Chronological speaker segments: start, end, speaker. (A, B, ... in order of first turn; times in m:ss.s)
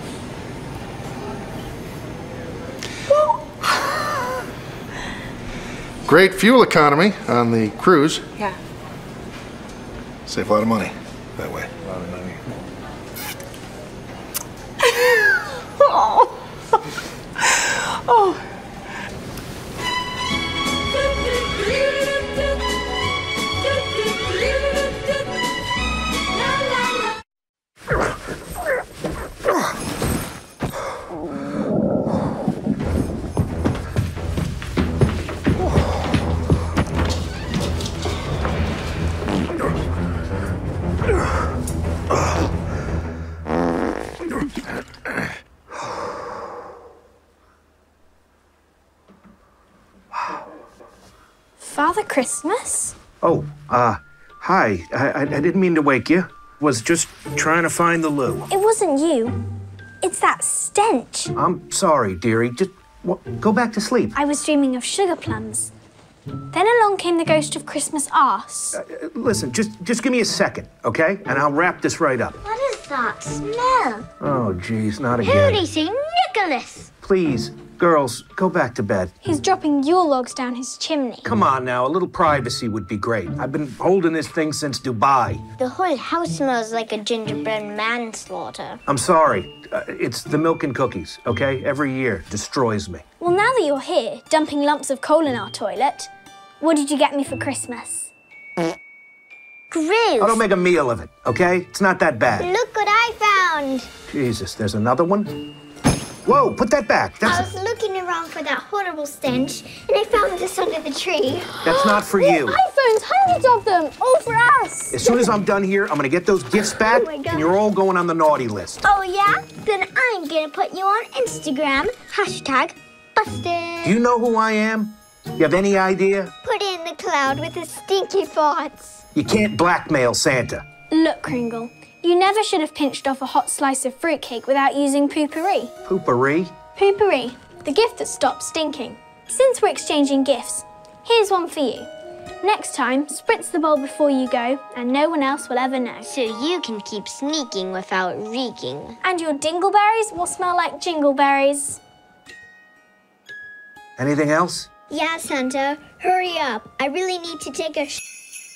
0:06.0-0:08.2 A
0:10.3-0:12.3 A
0:51.6-0:53.0 B
0:53.2-0:58.5 C
0:58.5-0:59.4 B
1:00.0-1:01.3 B
1:01.4-1:04.2 C
1:04.1-1:05.7 B
1:06.5-1:08.8 B
1:08.7-1:12.4 C
1:12.4-1:14.0 D
1:14.2-1:15.7 C
1:15.2-1:16.9 D
1:17.0-1:19.1 C
1:19.2-1:21.3 B
1:21.2-1:25.4 C
1:25.6-1:28.8 D
1:28.9-1:33.0 C
1:33.2-1:38.1 B
1:39.7-1:40.4 D
1:40.2-1:42.5 C
1:42.4-1:43.9 D
1:44.1-1:45.4 C
1:46.2-1:47.5 C
1:47.2-1:51.5 D
1:51.6-1:55.0 B
1:51.6-1:52.6 C
1:54.9-1:58.8 C
1:56.6-1:57.6 D
1:58.8-2:04.0 D
2:03.8-2:06.3 C
2:06.4-2:09.0 D
2:09.1-2:10.6 C
2:10.9-2:15.7 B
2:15.9-2:16.5 C
2:16.8-2:21.9 B
2:22.4-2:26.1 B
2:26.1-2:29.0 D
2:29.0-2:31.8 B
2:34.0-2:34.7 C
2:34.9-2:38.0 D